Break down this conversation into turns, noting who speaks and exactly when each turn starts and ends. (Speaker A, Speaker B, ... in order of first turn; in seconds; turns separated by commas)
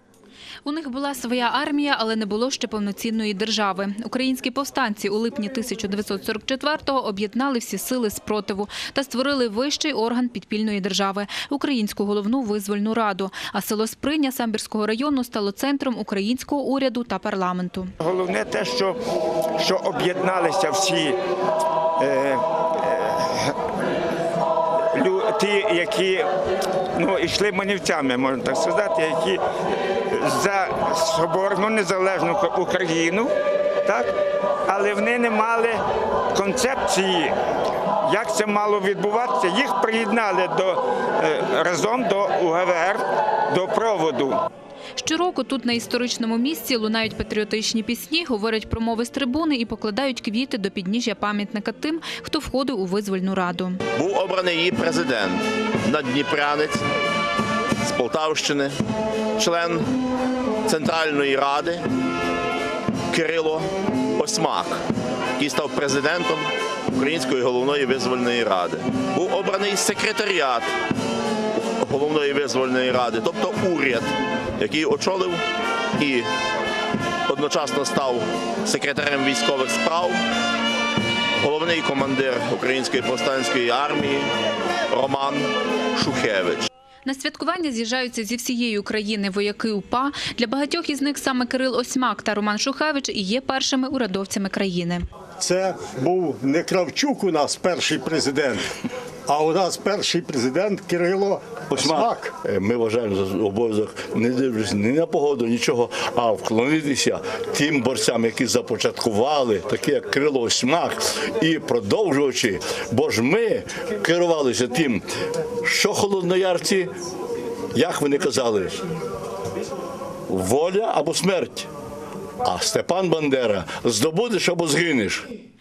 Speaker A: 0.7-17.9, Speaker B: 18.0-19.0, Speaker B: 19.6-21.2, Speaker B: 22.0-23.6, Speaker B: 24.9-26.3, Speaker B: 27.0-29.4, Speaker B: 30.1-33.3, Speaker B: 33.9-34.1, Speaker B: 34.7-35.8, Speaker B: 36.3-37.3, Speaker B: 38.0-44.4, Speaker A: 45.0-53.8, Speaker C: 53.9-56.9, Speaker C: 57.8-58.8, Speaker C: 59.4-59.9, Speaker C: 60.7-61.9, Speaker C: 63.1-64.8, Speaker C: 65.4-70.7, Speaker C: 71.6-75.4, Speaker C: 76.0-76.3, Speaker C: 77.3-80.2, Speaker C: 81.4-84.3, Speaker C: 84.9-86.7, Speaker A: 87.0-95.0, Speaker D: 95.4-98.7, Speaker D: 99.3-102.3, Speaker E: 101.7-115.1, Speaker E: 115.6-116.9, Speaker E: 117.8-118.8, Speaker E: 120.3-121.7, Speaker E: 122.4-125.3